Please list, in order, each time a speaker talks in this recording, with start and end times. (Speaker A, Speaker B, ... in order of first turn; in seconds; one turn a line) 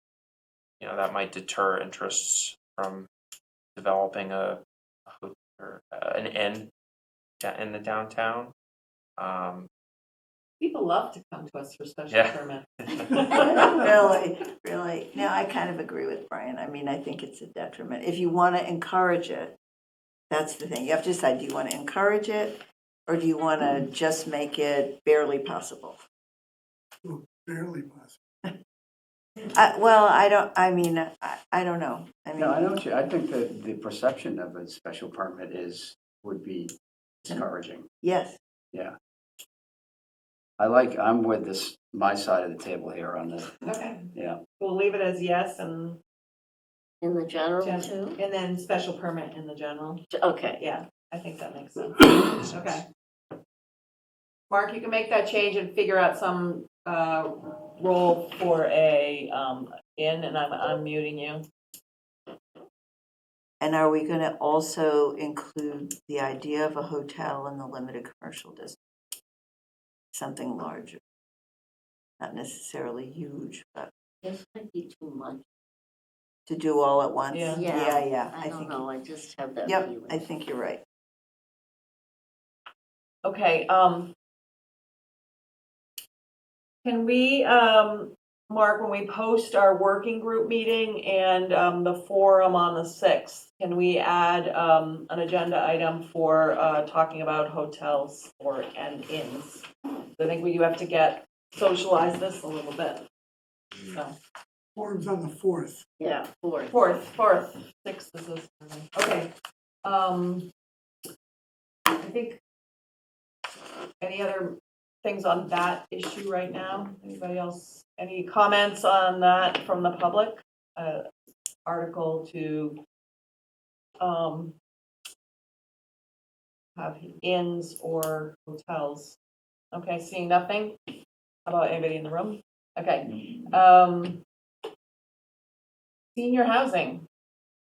Speaker A: 0.8-3.1
Speaker A: 3.7-6.7
Speaker A: 7.4-8.5
Speaker A: 9.2-9.7
Speaker B: 10.6-13.8
Speaker A: 12.1-13.2
Speaker C: 13.3-19.5
Speaker C: 20.3-26.0
Speaker D: 27.0-28.2
Speaker C: 29.5-32.9
Speaker E: 32.4-37.9
Speaker C: 38.0-38.4
Speaker E: 40.6-43.6
Speaker B: 43.6-44.1
Speaker B: 44.6-46.0
Speaker F: 47.0-48.2
Speaker B: 47.6-50.1
Speaker F: 50.1-50.6
Speaker B: 50.6-52.9
Speaker B: 54.5-61.4
Speaker C: 63.6-68.8
Speaker C: 70.1-71.0
Speaker C: 72.2-73.9
Speaker F: 74.2-75.4
Speaker C: 76.5-78.8
Speaker B: 77.3-77.6
Speaker F: 77.5-80.3
Speaker C: 79.6-80.8
Speaker B: 83.2-84.1
Speaker B: 86.8-103.0
Speaker B: 103.9-104.1
Speaker D: 104.7-105.8
Speaker F: 106.0-106.7
Speaker B: 106.7-109.3
Speaker B: 109.8-110.5
Speaker B: 111.9-112.4
Speaker B: 114.0-121.0
Speaker B: 121.6-122.8
Speaker B: 124.0-124.5
Speaker B: 126.8-129.2
Speaker B: 129.7-130.8
Speaker B: 131.4-134.2
Speaker B: 136.1-137.1